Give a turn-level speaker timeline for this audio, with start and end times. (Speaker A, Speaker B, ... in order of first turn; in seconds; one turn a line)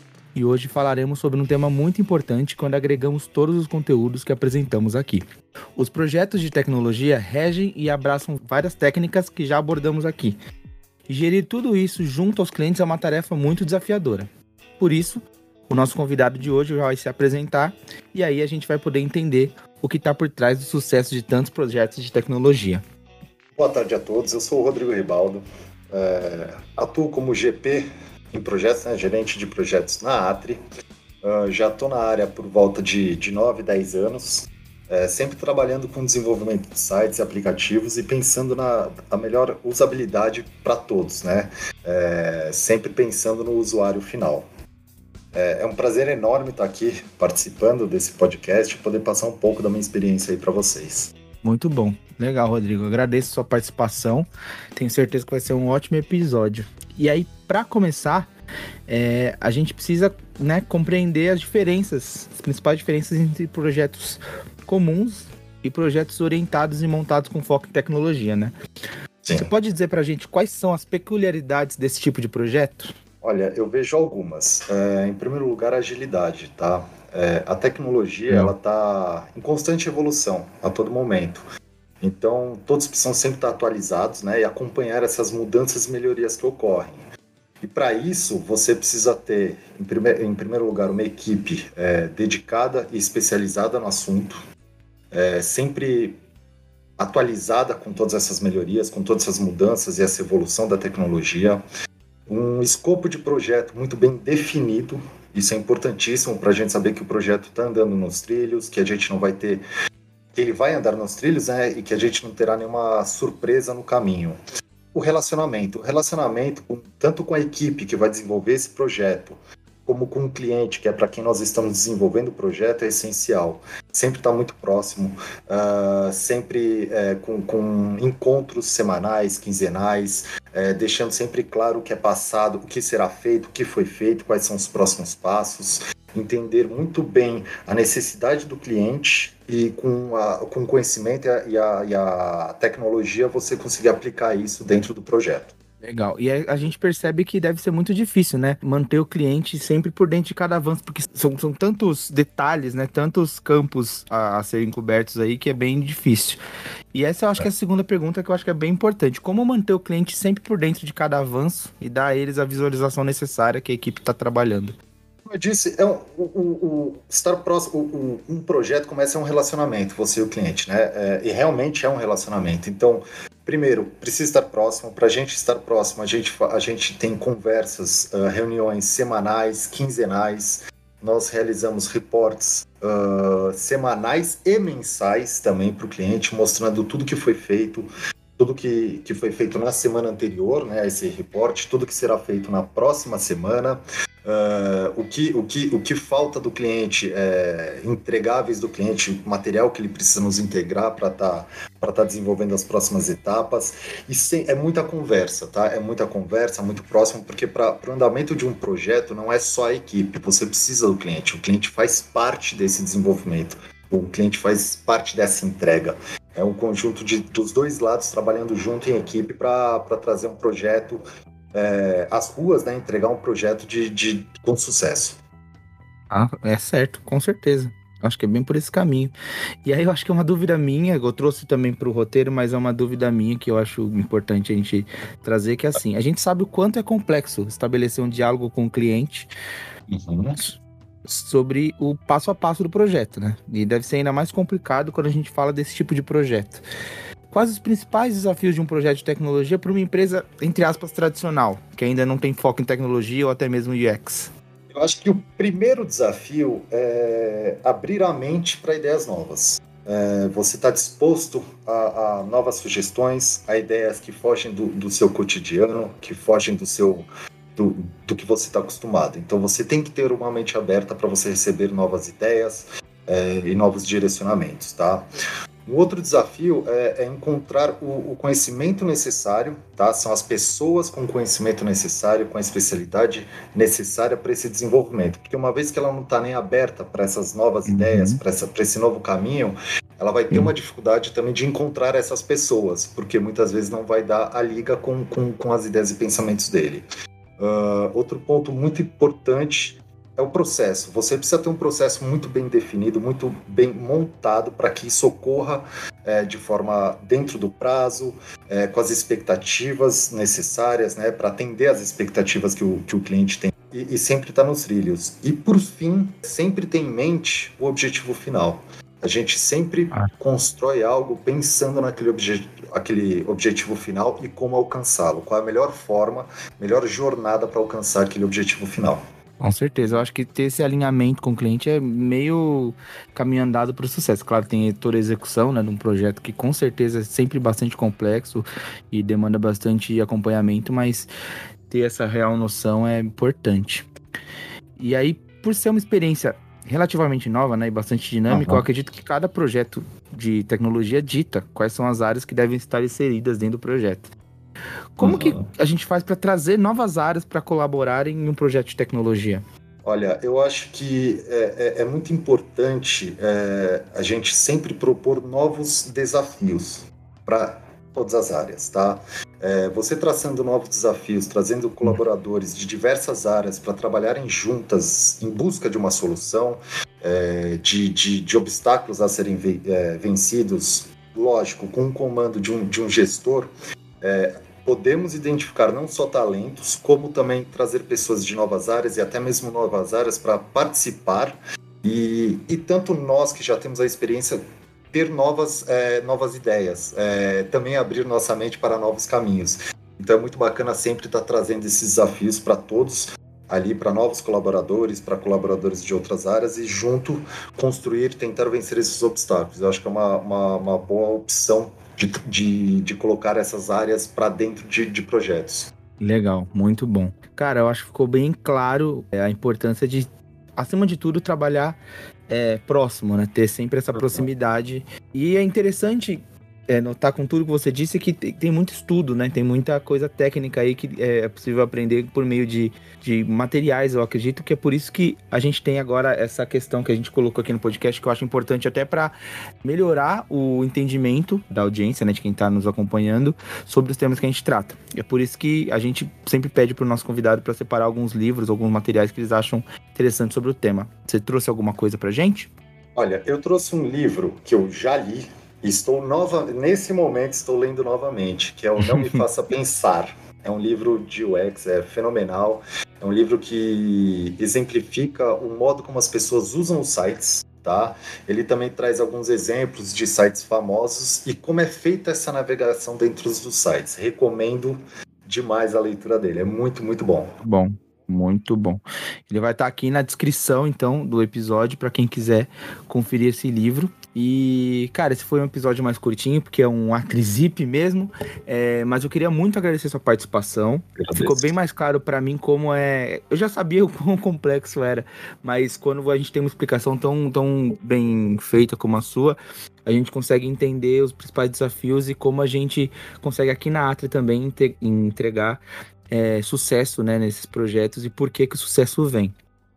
Speaker A: 0.3-5.2
Speaker A: 5.8-10.4
Speaker A: 11.1-14.3
Speaker A: 14.8-22.8
Speaker B: 23.6-30.6
Speaker B: 31.2-44.5
Speaker B: 45.3-51.1
Speaker A: 51.4-58.3
Speaker A: 58.9-68.5
Speaker B: 69.2-69.5
Speaker A: 69.3-72.9
Speaker B: 73.2-81.4
Speaker B: 82.0-87.0
Speaker B: 87.6-94.4
Speaker B: 95.1-96.2
Speaker B: 97.0-101.6
Speaker B: 102.3-109.6
Speaker B: 110.3-114.3
Speaker B: 114.9-145.5
Speaker A: 145.8-156.4
Speaker A: 156.9-164.8
Speaker B: 165.3-221.0
Speaker B: 221.5-225.2
Speaker A: 226.1-229.1
Speaker A: 229.6-239.3
Speaker B: 239.9-240.4
Speaker A: 240.3-246.6
Speaker A: 247.3-254.3
Speaker B: 254.7-275.0
Speaker B: 275.6-296.9
Speaker A: 287.6-288.2
Speaker B: 297.4-329.0
Speaker A: 329.4-341.1
Speaker A: 341.7-343.9
Speaker A: 344.8-354.1
Speaker B: 348.3-348.6
Speaker A: 355.0-359.4
Speaker B: 355.0-355.4
Speaker B: 359.8-394.4
Speaker B: 394.9-415.7
Speaker A: 416.0-452.5
Speaker B: 423.9-424.3
Speaker B: 452.9-477.3
Speaker A: 458.8-459.2
Speaker A: 477.4-509.3
Speaker B: 491.0-491.5